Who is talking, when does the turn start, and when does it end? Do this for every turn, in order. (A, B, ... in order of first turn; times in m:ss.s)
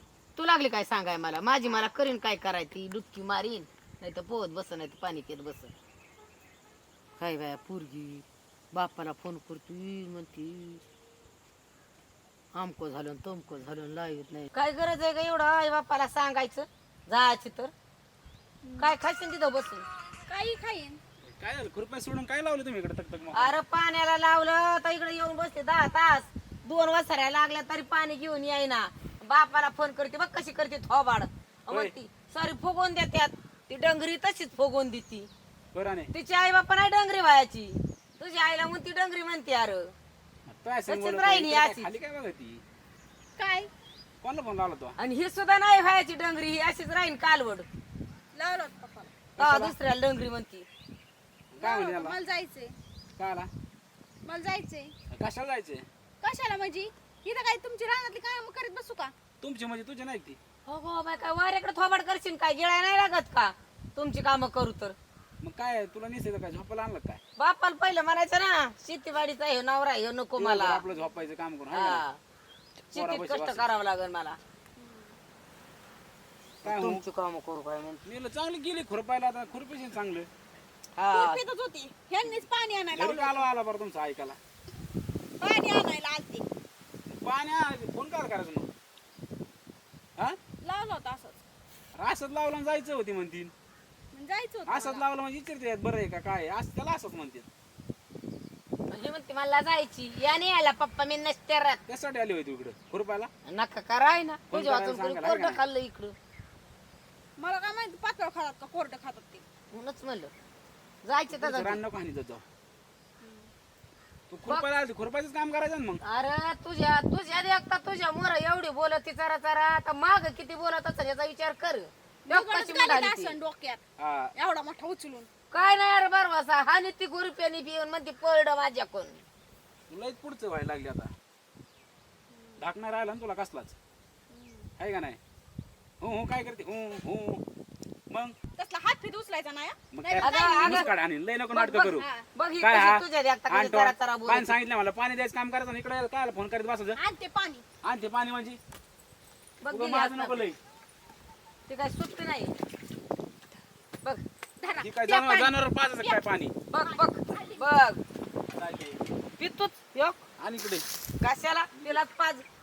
0:00.4-0:05.7 A
0:07.2-0:10.8 A
0:12.5-0:17.7 A
0:18.6-0:18.9 B
0:18.8-0:19.9 A
0:20.2-0:21.0 B
0:21.2-0:23.5 C
0:23.3-0:35.3 A
0:31.7-0:31.9 C
0:35.7-0:36.1 C
0:36.1-0:39.9 A
0:40.5-0:42.6 C
0:40.9-0:41.9 A
0:43.4-0:43.7 B
0:44.2-0:45.0 C
0:45.0-0:47.7 A
0:48.3-0:49.2 B
0:49.4-0:49.8 C
0:49.4-0:50.7 A
0:51.5-0:52.2 C
0:51.6-0:52.7 B
0:53.2-0:53.5 C
0:54.2-0:54.9 B
0:55.1-0:55.8 C
0:56.2-0:59.1 B
0:59.4-1:00.4 C
1:00.6-1:05.0 A
1:05.4-1:07.2 C
1:07.4-1:10.8 A
1:10.4-1:12.0 C
1:11.7-1:12.2 A
1:12.9-1:14.4 A
1:12.9-1:13.7 C
1:14.8-1:15.2 B
1:16.6-1:18.1 A
1:16.6-1:17.0 C
1:18.0-1:20.3 C
1:21.0-1:21.4 A
1:21.1-1:23.5 B
1:22.2-1:24.4 C
1:25.4-1:26.4 B
1:27.1-1:28.7 C
1:30.6-1:31.4 B
1:32.0-1:33.5 C
1:34.1-1:35.1 B
1:34.7-1:37.4 C
1:38.9-1:41.8 A
1:41.9-1:43.3 C
1:43.5-1:46.1 A
1:44.5-1:45.6 C
1:47.4-1:49.4 B
1:49.7-1:50.3 A
1:51.0-1:51.8 A
1:51.3-1:52.4 C
1:53.2-1:53.5 B
1:54.3-1:56.0 C
1:56.0-2:03.4 A
2:02.2-2:03.8 B
2:04.0-2:04.3 C
2:04.3-2:05.3 B
2:05.5-2:09.2 A
2:09.9-2:11.1 C
2:12.3-2:12.7 B
2:12.6-2:13.8 C
2:14.3-2:14.7 B
2:14.8-2:15.2 C
2:16.0-2:17.4 C
2:18.5-2:21.0 B
2:19.9-2:22.1 C
2:20.2-2:20.9 A
2:21.6-2:22.2 B
2:22.3-2:24.5 A
2:22.6-2:27.0 C
2:26.9-2:27.6 B
2:27.8-2:28.6 C
2:29.6-2:30.4 A
2:29.7-2:30.6 C
2:31.7-2:32.5 A
2:34.6-2:36.3 B
2:34.8-2:36.5 C
2:36.7-2:38.0 A
2:36.8-2:37.7 B
2:38.5-2:39.0 C
2:39.4-2:40.2 A
2:40.4-2:40.8 C
2:41.2-2:42.4 A
2:41.8-2:42.0 C